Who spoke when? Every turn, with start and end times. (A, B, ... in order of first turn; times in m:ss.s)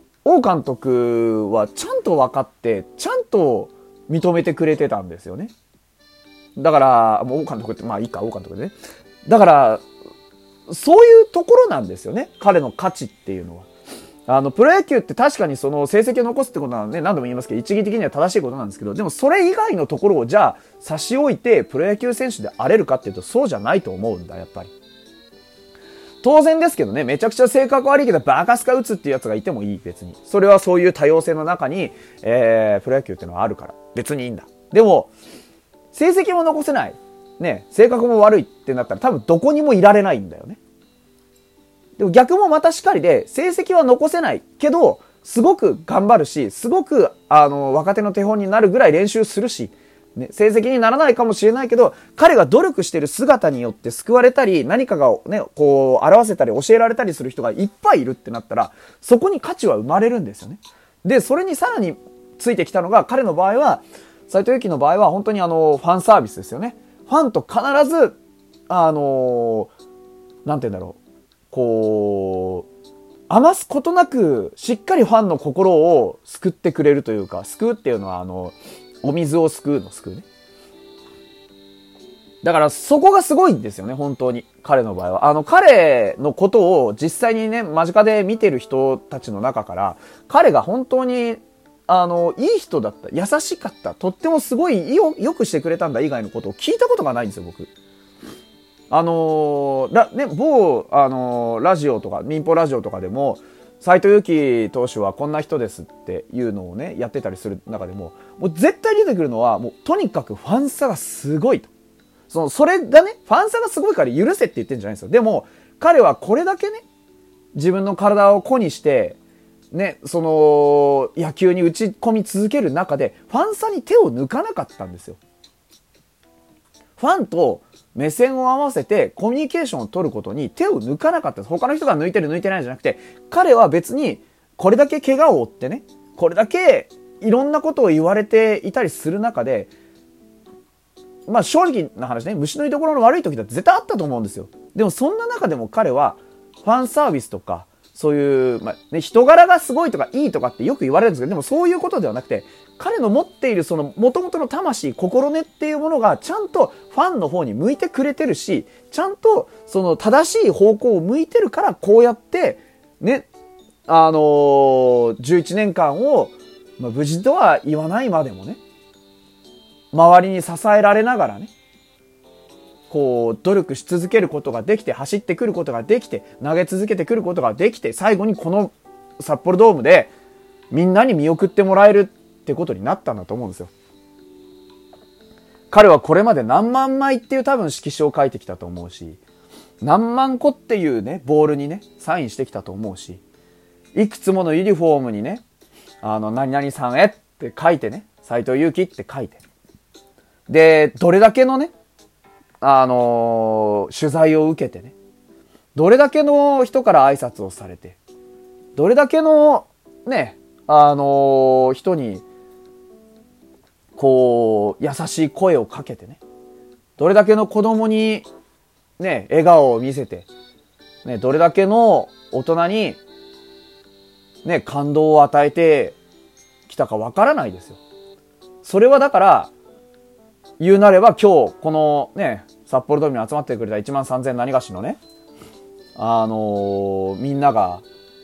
0:00.2-0:05.5 A
0:06.6-0:09.8 A
0:10.7-0:13.7 A
0:14.3-0:24.7 A
0:26.2-0:35.1 A
0:35.9-0:40.6 A
0:42.0-1:08.2 A
1:08.7-1:09.7 A
1:10.4-1:11.0 A
1:11.5-1:12.7 A
1:13.3-1:20.2 A
1:22.4-1:37.7 A
1:38.9-1:51.7 A
1:52.3-1:56.8 A
1:57.5-1:59.2 A
1:59.7-2:05.2 A
2:07.0-2:19.7 A
2:21.3-2:43.3 A
2:43.9-2:48.6 A
2:49.9-2:51.5 A
2:52.9-3:00.1 A
3:00.7-3:03.7 A
3:05.7-3:09.2 A
3:09.8-3:13.2 A
3:13.9-3:15.4 A
3:16.0-3:19.4 A
3:20.5-3:21.7 A
3:22.6-3:24.9 A
3:25.7-3:28.0 A
3:28.7-3:32.2 A
3:34.0-3:36.2 A
3:37.0-3:38.3 A
3:39.0-3:40.3 A
3:41.0-3:43.0 A
3:44.4-3:46.0 A
3:46.7-3:47.8 A
3:48.6-3:49.5 A
3:50.6-3:55.0 A
3:56.0-3:57.8 A